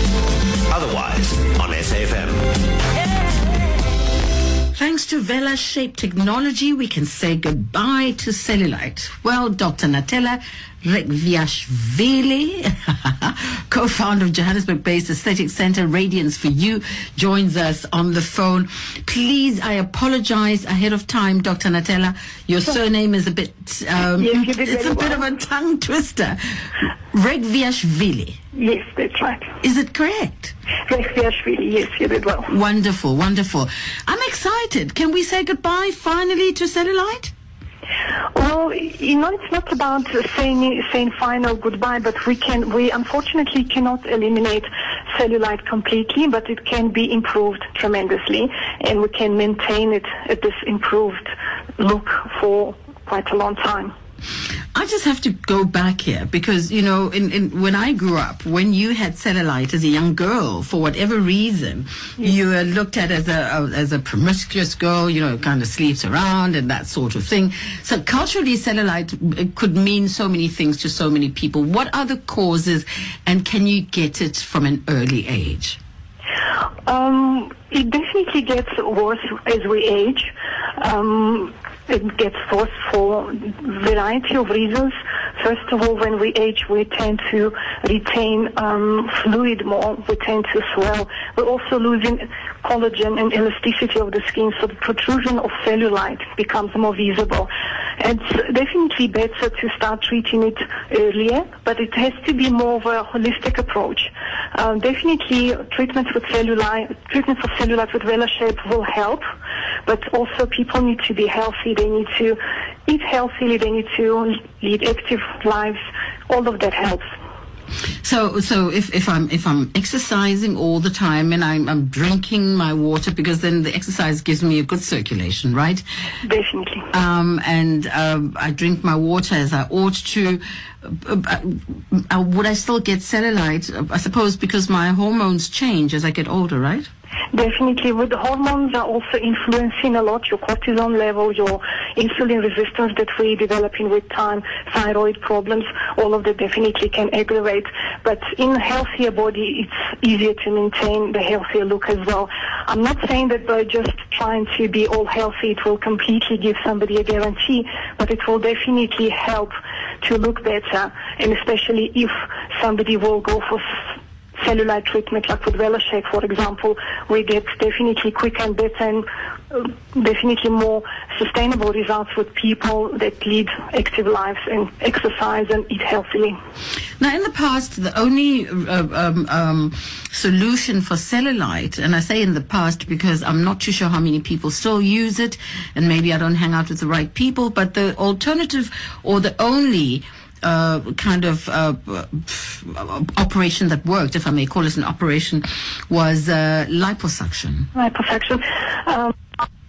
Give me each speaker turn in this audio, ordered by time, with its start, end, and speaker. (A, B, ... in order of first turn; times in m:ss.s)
0:00.7-0:02.7 A
0:04.7-0:28.4 B
0:24.2-0:25.2 C
0:28.5-0:29.5 C
0:29.6-0:30.5 B
0:30.9-0:32.5 C
0:32.5-0:37.3 B
0:38.3-0:53.9 C
0:54.7-1:15.8 B
1:16.8-1:49.2 C
1:49.8-1:57.1 C
1:58.0-2:05.8 B
2:06.2-2:06.9 C
2:06.9-2:16.9 B
2:17.3-2:43.8 C
2:44.4-2:56.4 C
2:57.0-3:17.7 B
3:17.7-3:19.1 C